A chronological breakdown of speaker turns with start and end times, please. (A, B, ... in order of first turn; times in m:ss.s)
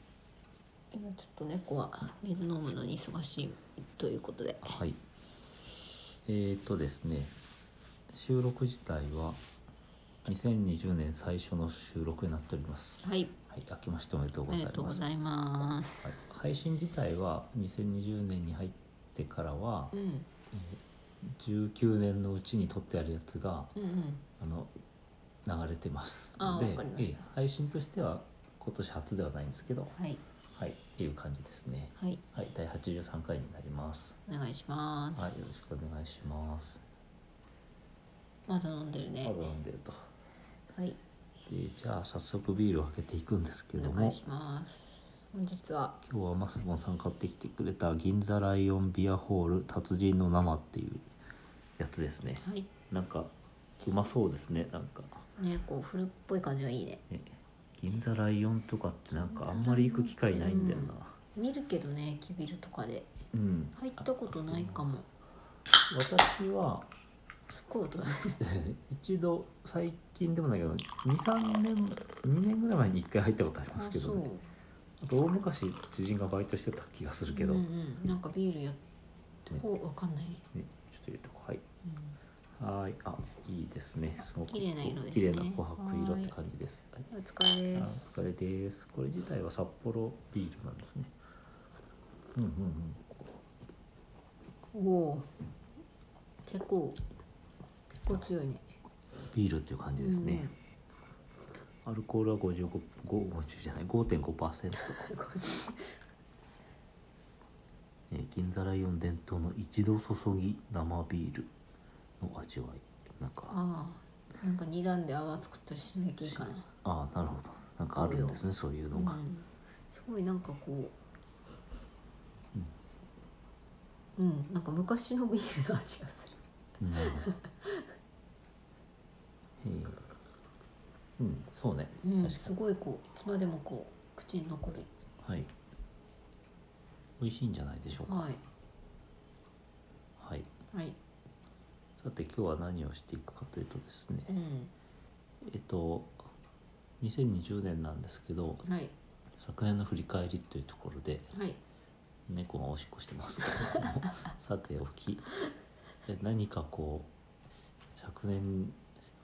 0:00.9-0:04.8 A
0:04.6-0:05.0 B
0:06.2-0:07.4 B
0:08.1-0:09.4 B
0:10.2-0:15.0 B
0:13.0-0:13.4 A
0:14.5-0:16.2 A
0:16.0-0:19.9 B
0:19.9-0:20.3 A
0:20.5-0:23.8 B
0:23.8-0:24.2 A
0:24.4-0:24.7 B
0:25.4-0:29.9 B
0:26.4-0:27.3 A
0:29.9-0:30.2 A
0:30.5-0:34.2 B
0:32.0-0:32.2 A
0:34.3-0:35.4 A
0:35.2-0:36.8 B
0:38.5-0:39.4 A
0:39.2-0:40.1 B
0:40.7-0:41.0 A
0:41.5-0:44.2 B
0:43.7-0:46.0 A
0:46.0-0:51.1 B
0:51.8-0:55.3 B
0:52.4-0:52.7 A
0:55.4-0:57.0 A
0:57.1-1:01.2 B
0:59.1-1:03.2 A
1:03.3-1:05.0 B
1:03.8-1:05.1 A
1:05.9-1:06.9 B
1:07.5-1:08.4 A
1:08.4-1:14.3 B
1:13.7-1:14.5 A
1:15.0-1:17.7 B
1:17.3-1:18.8 A
1:19.5-1:20.4 A
1:20.5-1:21.6 B
1:21.8-1:22.2 A
1:22.6-1:27.1 B
1:24.3-1:26.4 A
1:27.1-1:28.2 A
1:27.7-1:31.1 B
1:32.4-1:33.0 B
1:34.7-1:35.3 A
1:36.4-1:37.0 A
1:37.9-1:38.7 A
1:39.3-1:40.5 B
1:40.0-1:40.5 A
1:41.8-1:45.1 B
1:44.8-1:45.8 A
1:48.1-1:51.5 B
1:52.2-1:53.6 B
1:53.5-1:56.7 A
1:56.2-1:59.2 B
1:58.0-2:01.0 A
2:04.2-2:06.4 A
2:06.8-2:07.3 B
2:07.0-2:07.9 A
2:09.6-2:10.0 B
2:11.2-2:12.5 B
2:12.0-2:14.9 A
2:15.2-2:15.5 B
2:17.2-2:18.3 B
2:18.0-2:18.4 A
2:20.2-2:20.5 B
2:20.7-2:21.0 A
2:22.0-2:24.3 B
2:24.3-2:24.7 A
2:25.4-2:26.2 B
2:27.0-2:28.7 B
2:28.6-2:28.9 A
2:29.4-2:31.3 B
2:31.3-2:31.6 A
2:32.3-2:35.3 B
2:36.1-2:37.1 B
2:38.0-2:38.8 B